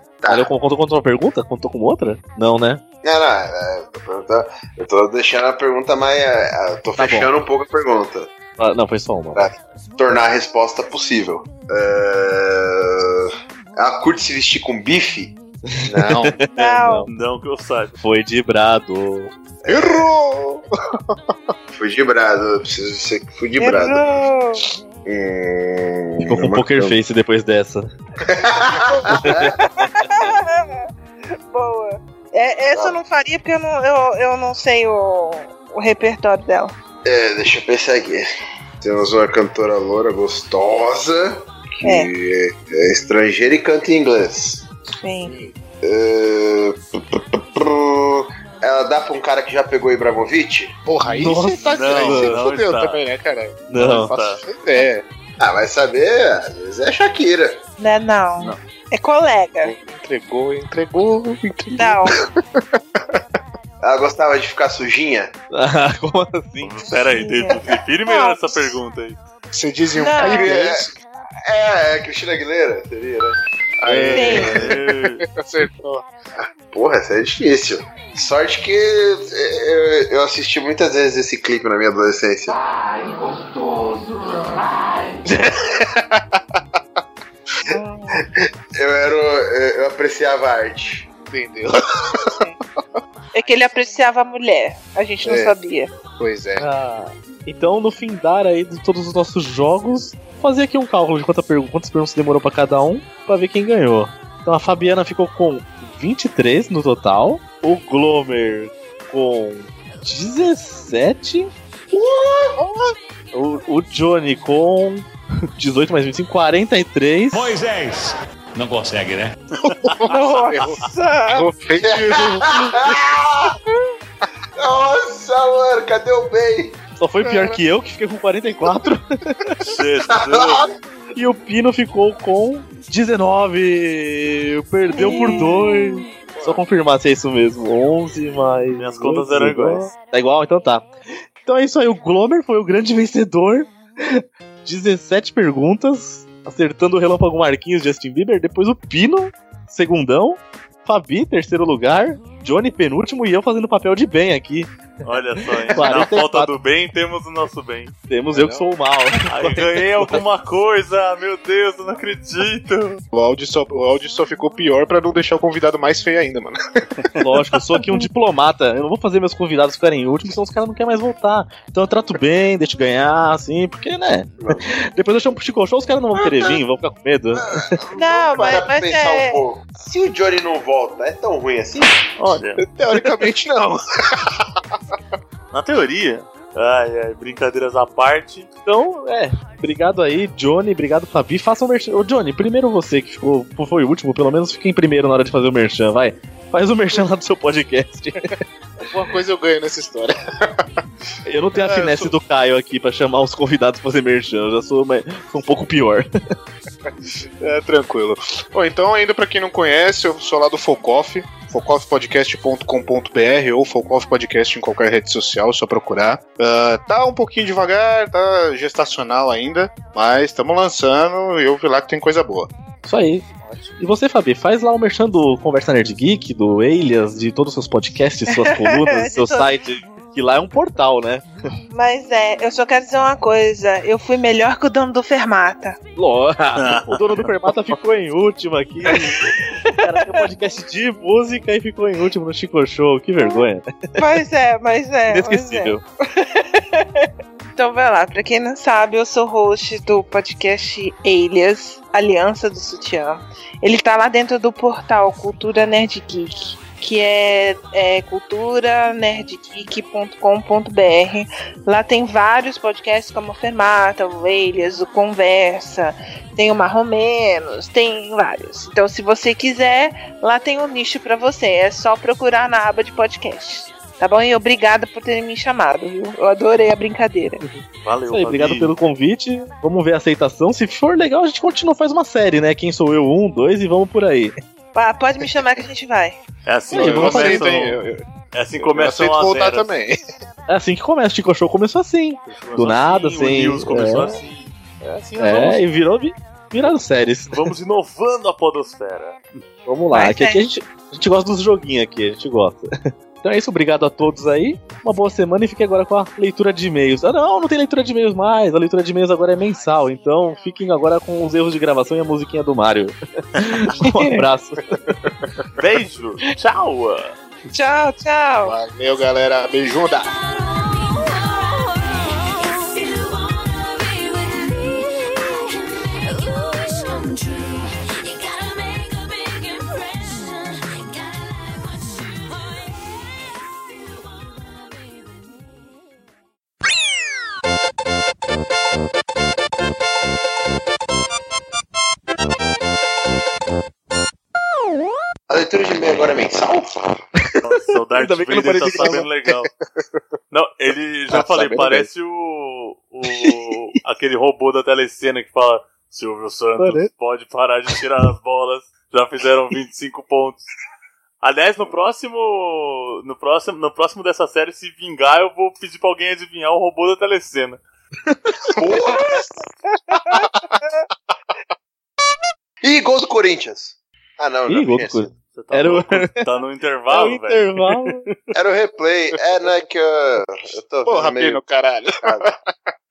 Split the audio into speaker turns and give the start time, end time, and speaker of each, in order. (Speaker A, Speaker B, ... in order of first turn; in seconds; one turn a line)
Speaker A: 0.2-0.5
Speaker B: 0.3-2.8
Speaker A: 3.0-8.3
Speaker B: 7.0-7.3
Speaker B: 8.6-9.5
Speaker A: 9.3-16.2
Speaker B: 15.7-17.1
Speaker C: 16.0-16.4
Speaker D: 16.6-17.1
Speaker E: 17.1-17.9
Speaker B: 18.0-19.3
Speaker A: 19.6-20.1
Speaker C: 19.7-21.5
Speaker A: 21.7-24.2
Speaker D: 23.6-24.7
Speaker A: 25.1-27.0
Speaker B: 26.2-27.9
Speaker A: 28.2-29.5
Speaker B: 29.2-29.6
Speaker D: 29.5-36.8
Speaker A: 32.7-33.0
Speaker A: 37.0-38.3
Speaker A: 38.8-44.7
Speaker D: 41.8-42.1
Speaker D: 45.0-45.4
Speaker C: 45.3-45.5
Speaker A: 45.8-50.8
Speaker C: 50.9-55.0
Speaker B: 51.2-52.4
Speaker E: 51.6-53.0
Speaker B: 53.7-54.1
Speaker E: 53.7-54.4
Speaker A: 55.4-57.6
Speaker D: 57.8-59.7
Speaker C: 59.6-63.2
Speaker D: 61.8-62.1
Speaker A: 63.8-65.3
Speaker B: 65.5-66.9
Speaker E: 66.6-69.2
Speaker D: 67.1-68.7
Speaker C: 69.5-70.9
Speaker D: 70.0-70.5
Speaker A: 70.2-70.9
Speaker A: 71.5-73.4
Speaker C: 73.8-76.1
Speaker B: 73.9-74.7
Speaker D: 74.1-74.7
Speaker E: 74.4-75.2
Speaker A: 76.4-82.6
Speaker C: 85.3-86.6
Speaker D: 87.7-88.2
Speaker A: 88.2-91.1
Speaker C: 91.3-92.4
Speaker D: 93.3-95.9
Speaker C: 95.2-95.5
Speaker C: 96.2-96.7
Speaker B: 96.6-111.5
Speaker A: 111.9-112.6
Speaker C: 112.6-112.9
Speaker B: 113.3-117.6
Speaker F: 117.3-119.3
Speaker E: 119.6-120.0
Speaker C: 119.7-123.0
Speaker D: 120.0-121.5
Speaker A: 121.8-123.6
Speaker A: 124.6-126.8
Speaker B: 127.0-129.7
Speaker C: 127.2-127.6
Speaker E: 129.6-130.6
Speaker A: 130.1-130.7
Speaker B: 131.2-140.9
Speaker D: 134.9-136.1
Speaker A: 136.3-136.6
Speaker E: 138.7-139.9
Speaker B: 141.4-154.7
Speaker E: 155.0-157.9
Speaker B: 155.7-156.5
Speaker B: 158.1-160.2
Speaker C: 158.3-158.7
Speaker E: 159.3-163.0
Speaker C: 163.1-166.8
Speaker B: 167.2-177.8
Speaker A: 174.4-174.8
Speaker A: 176.2-176.6
Speaker A: 177.4-182.1
Speaker D: 177.9-179.4
Speaker E: 182.2-182.6
Speaker C: 182.6-184.6
Speaker E: 185.5-188.5
Speaker B: 188.7-198.4
Speaker C: 198.2-200.8
Speaker B: 201.3-206.1
Speaker C: 201.5-202.2
Speaker C: 206.8-222.5
Speaker B: 222.8-223.3
Speaker E: 223.4-223.8
Speaker B: 223.8-231.2
Speaker D: 228.3-229.5
Speaker D: 231.7-235.8
Speaker B: 236.0-243.9
Speaker E: 236.6-237.0
Speaker D: 238.9-240.2
Speaker D: 243.2-243.4
Speaker D: 244.0-277.4
Speaker B: 245.1-245.8
Speaker E: 277.8-278.8
Speaker B: 278.1-284.4
Speaker D: 284.7-286.2
Speaker E: 286.5-287.8
Speaker C: 286.7-288.1
Speaker B: 286.8-287.4
Speaker E: 288.3-289.7
Speaker C: 288.6-290.1
Speaker B: 290.5-294.2
Speaker E: 292.3-294.5
Speaker C: 294.8-295.6
Speaker B: 295.2-297.5
Speaker E: 297.3-299.4
Speaker B: 299.7-314.6
Speaker D: 299.9-300.4
Speaker D: 313.8-314.3
Speaker E: 315.6-317.1
Speaker D: 317.5-318.6
Speaker C: 318.4-320.1
Speaker G: 319.9-335.4
Speaker A: 345.3-346.8
Speaker E: 347.4-349.5
Speaker B: 348.0-349.1
Speaker C: 348.4-350.0
Speaker E: 350.3-360.4
Speaker C: 351.1-351.9
Speaker B: 356.6-356.9
Speaker E: 361.2-367.6
Speaker B: 368.1-368.5
Speaker A: 368.5-369.3
Speaker D: 369.9-370.8
Speaker C: 370.0-370.6
Speaker A: 372.6-375.1
Speaker B: 374.5-376.2
Speaker E: 375.3-377.9
Speaker B: 376.9-378.1
Speaker A: 378.3-381.4
Speaker C: 380.9-382.5
Speaker A: 382.0-382.3